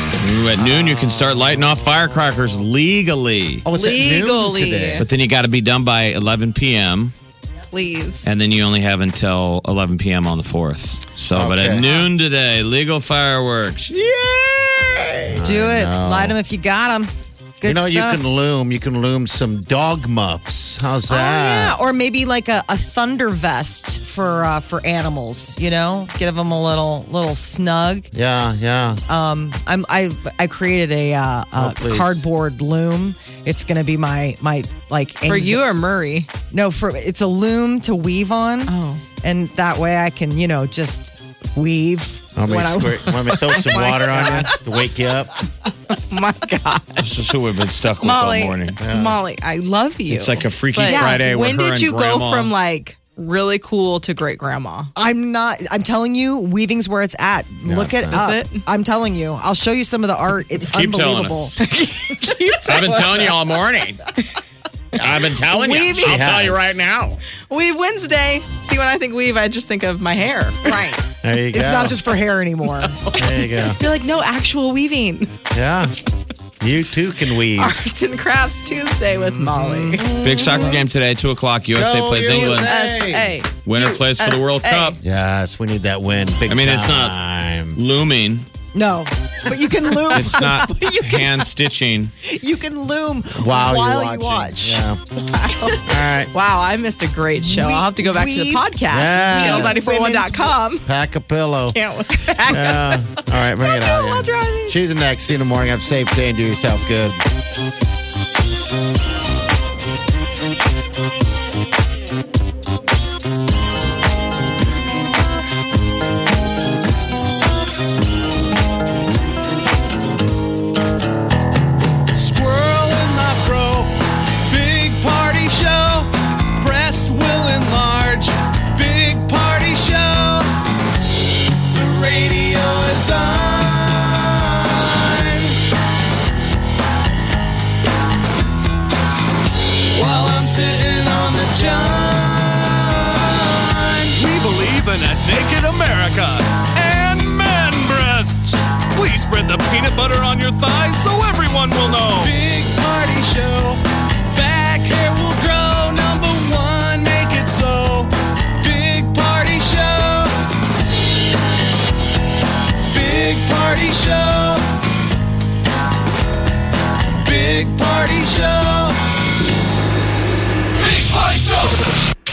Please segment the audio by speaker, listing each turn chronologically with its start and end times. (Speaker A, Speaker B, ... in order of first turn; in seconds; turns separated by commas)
Speaker A: 0.2-3.6, Speaker B: 0.6-1.6, Speaker B: 3.6-5.0, Speaker C: 3.7-5.0, Speaker A: 5.0-7.1, Speaker C: 7.7-8.3, Speaker A: 8.2-13.9, Speaker B: 11.3-11.9, Speaker D: 13.9-14.8, Speaker B: 15.3-16.4, Speaker D: 15.4-18.2, Speaker B: 17.6-21.8, Speaker D: 21.1-28.1, Speaker B: 28.1-29.0, Speaker D: 29.1-35.7, Speaker B: 31.6-32.2, Speaker C: 35.3-36.3, Speaker D: 36.5-44.4, Speaker C: 38.7-39.0, Speaker B: 42.4-45.3, Speaker C: 43.4-44.5, Speaker C: 45.9-47.0, Speaker A: 47.0-48.8, Speaker C: 48.0-54.9, Speaker B: 48.8-49.2, Speaker A: 50.1-52.5, Speaker D: 50.7-51.1, Speaker D: 55.0-61.6, Speaker B: 57.6-58.3, Speaker C: 58.1-58.6, Speaker A: 60.6-61.6, Speaker C: 61.6-63.4, Speaker A: 62.6-64.0, Speaker A: 64.9-67.2, Speaker C: 65.5-66.3, Speaker D: 65.5-66.2, Speaker B: 65.9-66.7, Speaker C: 67.5-71.0, Speaker D: 70.6-73.0, Speaker B: 71.2-72.0, Speaker B: 73.1-73.8, Speaker C: 73.2-75.3, Speaker B: 75.5-75.9, Speaker B: 76.6-77.8, Speaker C: 77.4-80.7, Speaker B: 79.1-80.1, Speaker A: 80.2-82.7, Speaker B: 81.7-83.4, Speaker C: 82.5-84.9, Speaker A: 83.6-85.0, Speaker D: 83.8-84.8, Speaker B: 85.0-87.8, Speaker A: 86.5-87.2, Speaker A: 87.7-88.5, Speaker D: 88.7-91.3, Speaker A: 90.1-92.1, Speaker D: 92.2-94.9, Speaker B: 93.3-95.0, Speaker C: 95.3-100.8, Speaker B: 95.8-96.3, Speaker D: 97.4-100.6, Speaker B: 98.9-99.9, Speaker B: 100.8-101.8, Speaker C: 101.7-104.8, Speaker D: 102.3-102.8, Speaker B: 102.5-107.2, Speaker E: 122.1-130.5, Speaker E: 131.7-135.6, Speaker E: 139.9-160.3, Speaker E: 162.9-164.6, Speaker E: 167.2-168.9